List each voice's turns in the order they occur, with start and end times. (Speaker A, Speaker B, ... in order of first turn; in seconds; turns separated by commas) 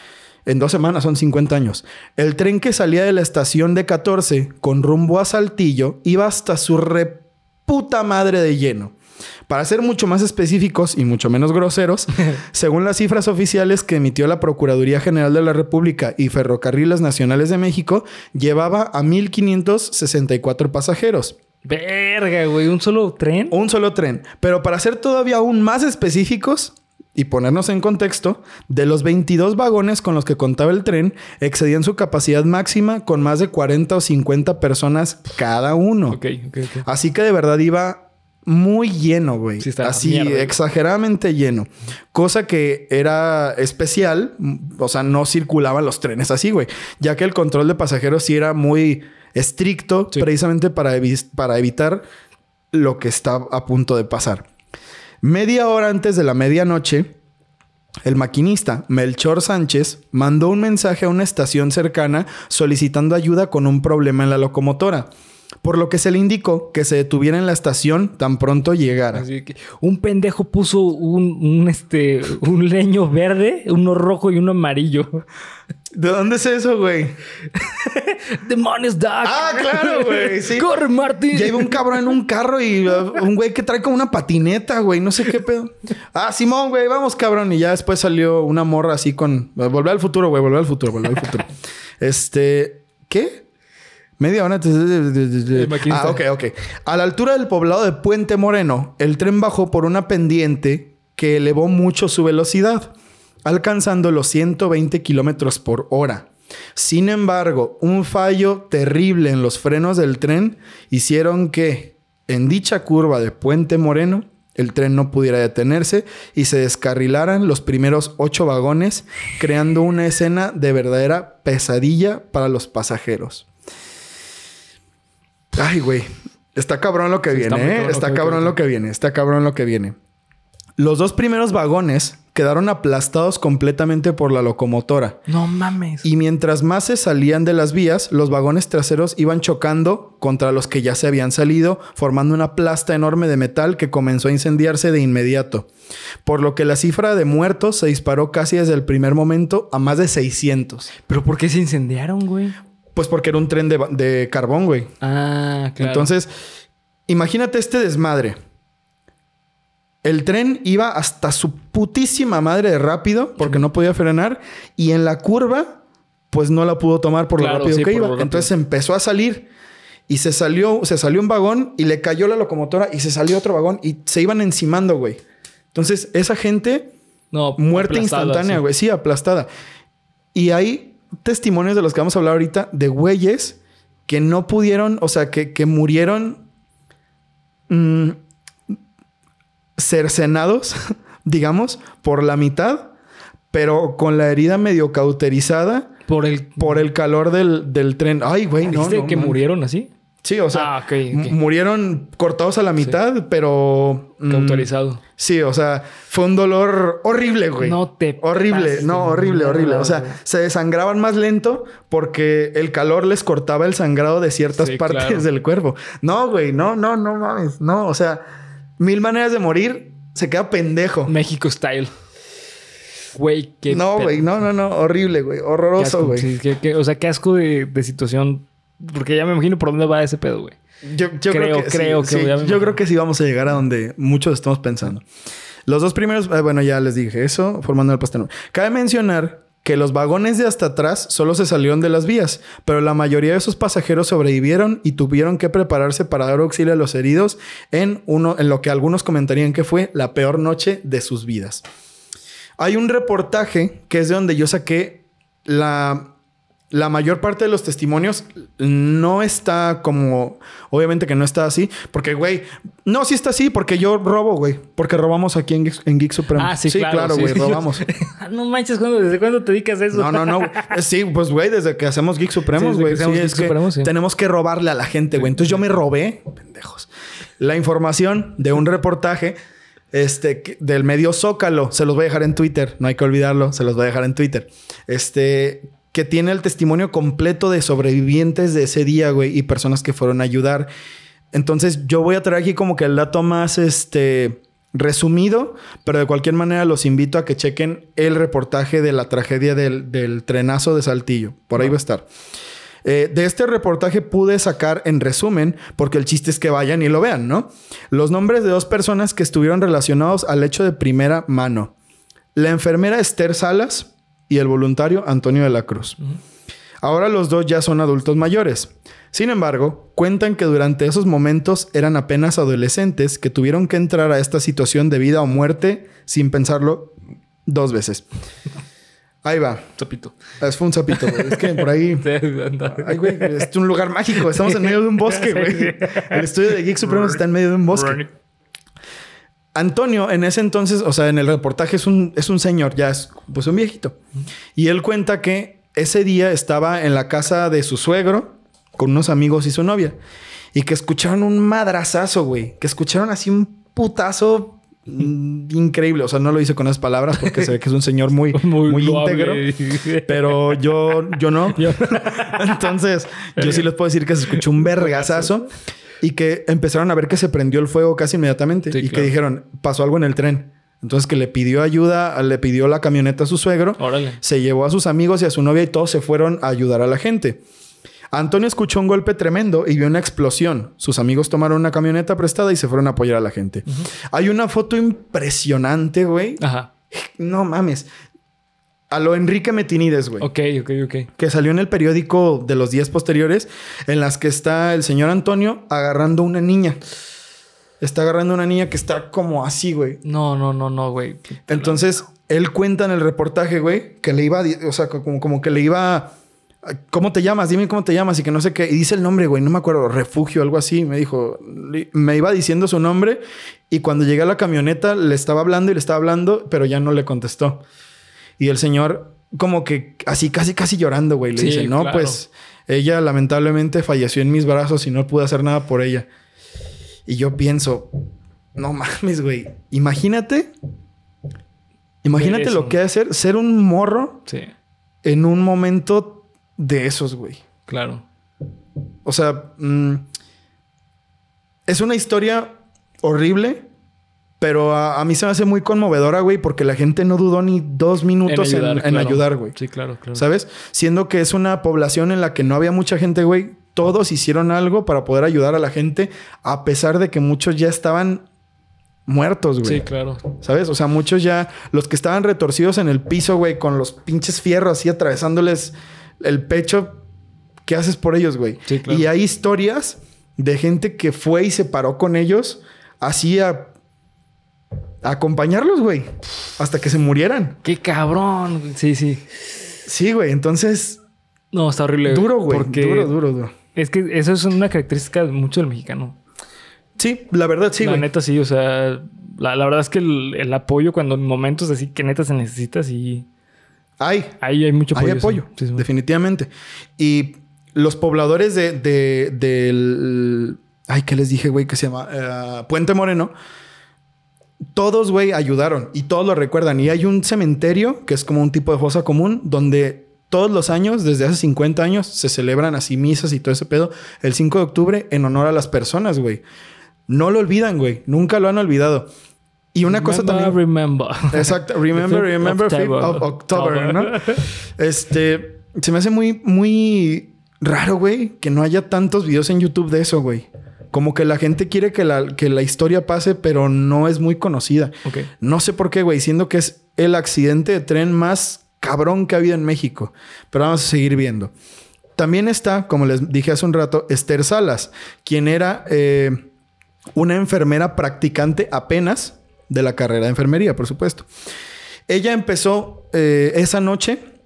Speaker A: 0.5-8.9, Speaker A: 9.5-21.4, Speaker B: 21.6-23.6, Speaker A: 23.5-36.2, Speaker B: 36.1-36.9, Speaker A: 36.9-52.0, Speaker B: 39.6-40.6, Speaker A: 52.7-54.5, Speaker A: 55.2-57.1, Speaker A: 58.0-65.1, Speaker A: 65.6-69.2, Speaker B: 69.1-75.2, Speaker A: 75.9-77.2, Speaker B: 77.6-81.9, Speaker A: 79.2-80.7, Speaker A: 81.3-91.5, Speaker A: 92.0-93.4, Speaker A: 94.2-102.9, Speaker B: 95.5-96.2, Speaker A: 103.5-123.5, Speaker A: 125.5-130.0, Speaker B: 127.3-128.6, Speaker A: 130.8-135.2, Speaker B: 135.3-136.1, Speaker A: 136.0-145.7, Speaker A: 146.2-150.9, Speaker B: 151.0-152.6, Speaker A: 152.9-154.9, Speaker B: 155.0-156.1, Speaker A: 155.8-156.3, Speaker A: 157.1-158.4, Speaker A: 160.0-165.8, Speaker A: 166.3-169.5, Speaker B: 167.4-168.5, Speaker A: 170.1-175.2, Speaker A: 175.7-176.9, Speaker B: 177.3-178.6, Speaker A: 177.6-179.5, Speaker A: 180.3-186.4, Speaker A: 187.7-188.2, Speaker A: 189.8-192.9, Speaker A: 193.5-195.9, Speaker B: 196.1-196.8, Speaker A: 196.6-199.4, Speaker B: 198.7-199.9, Speaker A: 200.2-218.2, Speaker B: 200.5-201.4, Speaker B: 204.3-205.0, Speaker B: 207.6-210.2, Speaker B: 214.6-215.3, Speaker A: 218.8-221.2, Speaker B: 221.1-221.9, Speaker B: 223.2-224.3, Speaker A: 223.7-226.3, Speaker B: 225.8-230.6, Speaker A: 230.8-235.1, Speaker B: 231.3-232.8, Speaker A: 235.7-251.7, Speaker A: 252.6-256.1, Speaker A: 256.7-267.8, Speaker B: 266.4-270.8, Speaker A: 269.9-279.4, Speaker B: 272.5-273.9, Speaker A: 279.9-290.7, Speaker A: 291.3-302.1, Speaker A: 302.8-311.7, Speaker A: 312.4-316.0, Speaker A: 316.8-326.9, Speaker A: 327.5-328.1, Speaker A: 329.2-329.6, Speaker B: 329.8-330.1, Speaker A: 330.4-332.1, Speaker B: 330.9-333.4, Speaker A: 332.7-338.0, Speaker B: 334.4-336.3, Speaker B: 336.8-338.1, Speaker A: 339.6-344.0, Speaker A: 344.6-350.0, Speaker A: 350.5-359.4, Speaker B: 357.2-357.5, Speaker B: 358.3-360.6, Speaker A: 360.1-365.5, Speaker B: 361.6-362.7, Speaker B: 363.4-363.7, Speaker B: 364.6-365.3, Speaker A: 366.0-377.4, Speaker B: 368.7-369.1, Speaker B: 373.8-374.2, Speaker A: 378.1-387.9, Speaker B: 386.4-386.7, Speaker A: 388.9-390.3, Speaker B: 390.2-391.1, Speaker A: 391.2-396.8, Speaker A: 397.8-400.0, Speaker B: 400.0-401.9, Speaker A: 401.5-406.1, Speaker A: 406.7-417.6, Speaker A: 418.4-426.1, Speaker B: 421.4-422.2, Speaker A: 427.1-427.9, Speaker A: 428.6-430.5, Speaker A: 432.0-434.3, Speaker B: 432.1-432.8, Speaker A: 435.0-437.4, Speaker B: 437.7-438.0, Speaker A: 439.1-440.1, Speaker A: 441.7-443.7, Speaker A: 444.4-449.6, Speaker B: 448.2-450.2, Speaker A: 450.1-458.2, Speaker A: 459.1-467.0, Speaker B: 459.6-460.2, Speaker A: 467.7-473.7, Speaker B: 468.7-469.1, Speaker A: 475.0-477.6, Speaker B: 477.6-479.2, Speaker A: 479.9-481.0, Speaker B: 481.5-483.1, Speaker A: 482.1-483.5, Speaker B: 483.8-486.2, Speaker A: 487.0-488.1, Speaker B: 487.8-493.3, Speaker A: 494.0-494.4, Speaker B: 494.4-495.8, Speaker A: 494.9-503.3, Speaker A: 504.7-516.4, Speaker A: 517.1-519.1, Speaker A: 519.7-520.6, Speaker B: 519.9-524.4, Speaker A: 521.3-541.5, Speaker A: 542.2-546.5, Speaker A: 547.2-551.3, Speaker A: 552.1-554.2